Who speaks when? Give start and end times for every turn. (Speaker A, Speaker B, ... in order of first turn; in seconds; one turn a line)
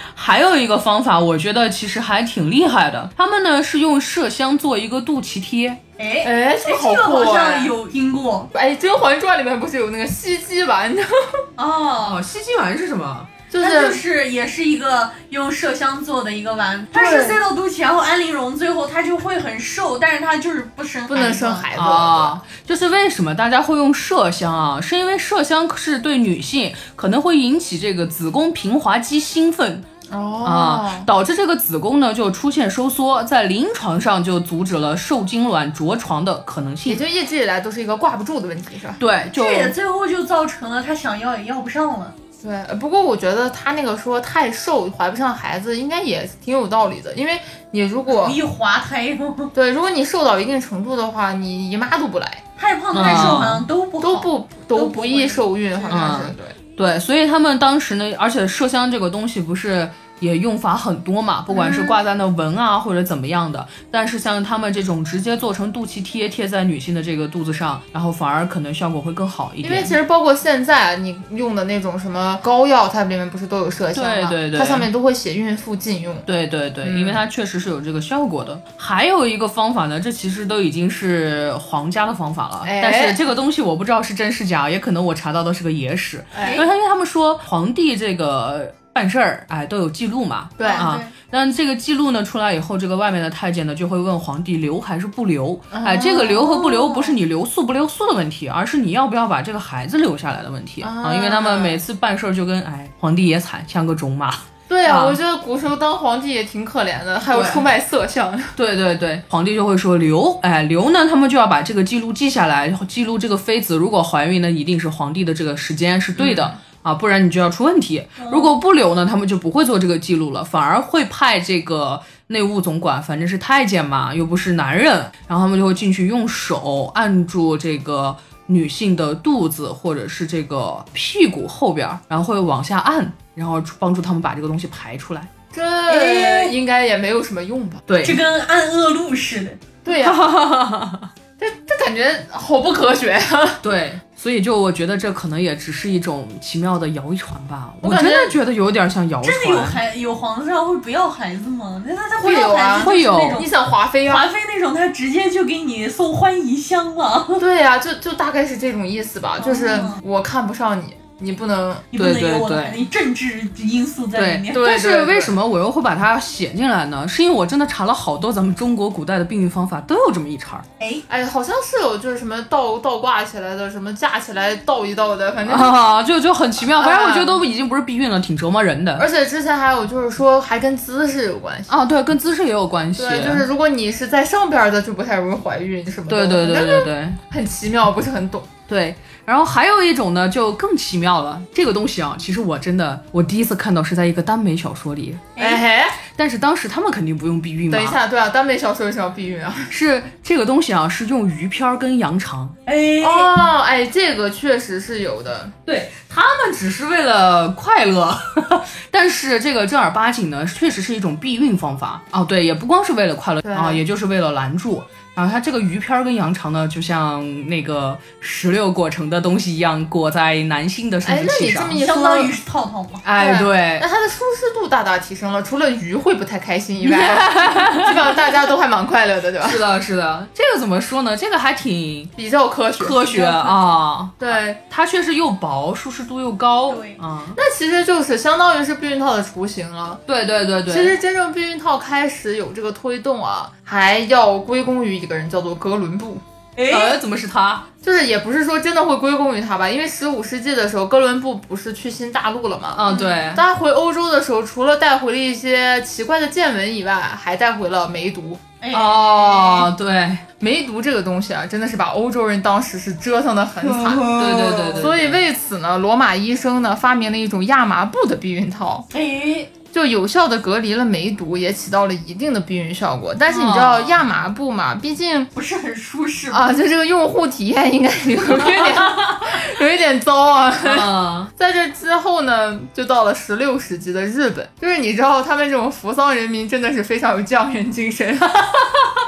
Speaker A: 0.1-5.8
Speaker B: 6.0-8.5
Speaker C: 6.2-7.7
Speaker C: 8.5-11.1
Speaker B: 11.6-12.1
Speaker A: 11.6-13.3
Speaker C: 13.5-14.0
Speaker B: 13.6-21.7
Speaker C: 16.9-17.4
Speaker C: 21.1-22.3
Speaker A: 21.7-29.8
Speaker C: 30.1-31.1
Speaker A: 30.4-37.0
Speaker C: 36.8-39.0
Speaker A: 39.0-39.7
Speaker B: 39.3-42.1
Speaker C: 42.4-48.4
Speaker B: 48.1-49.5
Speaker C: 49.5-52.4
Speaker B: 52.6-55.9
Speaker A: 52.9-53.6
Speaker C: 53.0-53.4
Speaker C: 54.0-56.5
Speaker A: 55.9-70.0
Speaker C: 61.5-62.0
Speaker C: 69.6-76.3
Speaker A: 73.9-74.9
Speaker A: 76.2-105.2
Speaker C: 76.8-77.2
Speaker C: 82.6-83.2
Speaker C: 86.3-86.6
Speaker B: 86.4-86.7
Speaker C: 90.6-90.9
Speaker B: 90.6-91.1
Speaker C: 95.7-96.7
Speaker C: 100.8-101.8
Speaker C: 104.7-108.5
Speaker A: 107.3-107.7
Speaker A: 108.5-135.3
Speaker C: 116.2-116.5
Speaker B: 118.2-118.5
Speaker C: 135.5-137.8
Speaker B: 135.9-136.5
Speaker A: 137.9-138.2
Speaker B: 138.0-139.6
Speaker C: 139.8-140.2
Speaker A: 139.9-141.1
Speaker C: 141.4-143.6
Speaker A: 143.6-149.8
Speaker C: 147.8-148.3
Speaker B: 149.2-153.5
Speaker C: 152.2-154.3
Speaker A: 152.8-153.4
Speaker B: 154.0-157.4
Speaker C: 157.4-161.8
Speaker B: 159.4-160.0
Speaker B: 161.9-164.6
Speaker A: 161.9-162.8
Speaker A: 164.1-170.6
Speaker C: 164.5-165.3
Speaker B: 170.8-171.0
Speaker C: 171.1-175.8
Speaker A: 175.5-179.1
Speaker C: 176.7-177.3
Speaker C: 179.0-181.7
Speaker A: 181.7-183.4
Speaker C: 183.0-188.5
Speaker A: 186.1-187.2
Speaker A: 188.7-195.3
Speaker B: 195.3-195.6
Speaker C: 195.4-196.0
Speaker A: 196.1-198.0
Speaker C: 197.7-199.7
Speaker A: 199.7-202.5
Speaker B: 202.7-203.3
Speaker C: 203.0-205.5
Speaker A: 205.7-221.8
Speaker C: 213.4-213.8
Speaker C: 221.0-222.3
Speaker B: 221.8-223.0
Speaker A: 223.0-223.8
Speaker C: 223.2-229.6
Speaker A: 226.8-227.9
Speaker A: 229.4-232.1
Speaker C: 232.2-234.6
Speaker A: 232.8-237.4
Speaker B: 236.7-237.0
Speaker C: 237.4-240.0
Speaker A: 240.1-241.0
Speaker C: 240.7-246.2
Speaker B: 246.6-247.0
Speaker A: 246.7-247.7
Speaker C: 247.8-259.6
Speaker A: 252.7-253.4
Speaker B: 252.9-253.2
Speaker B: 258.6-259.2
Speaker A: 258.7-260.2
Speaker C: 260.4-264.2
Speaker B: 263.6-264.8
Speaker A: 264.1-265.2
Speaker C: 264.8-268.9
Speaker B: 268.9-269.5
Speaker C: 269.7-275.3
Speaker A: 273.3-274.0
Speaker B: 275.3-276.4
Speaker C: 276.3-288.3
Speaker A: 278.6-278.9
Speaker A: 280.6-281.3
Speaker A: 288.4-288.8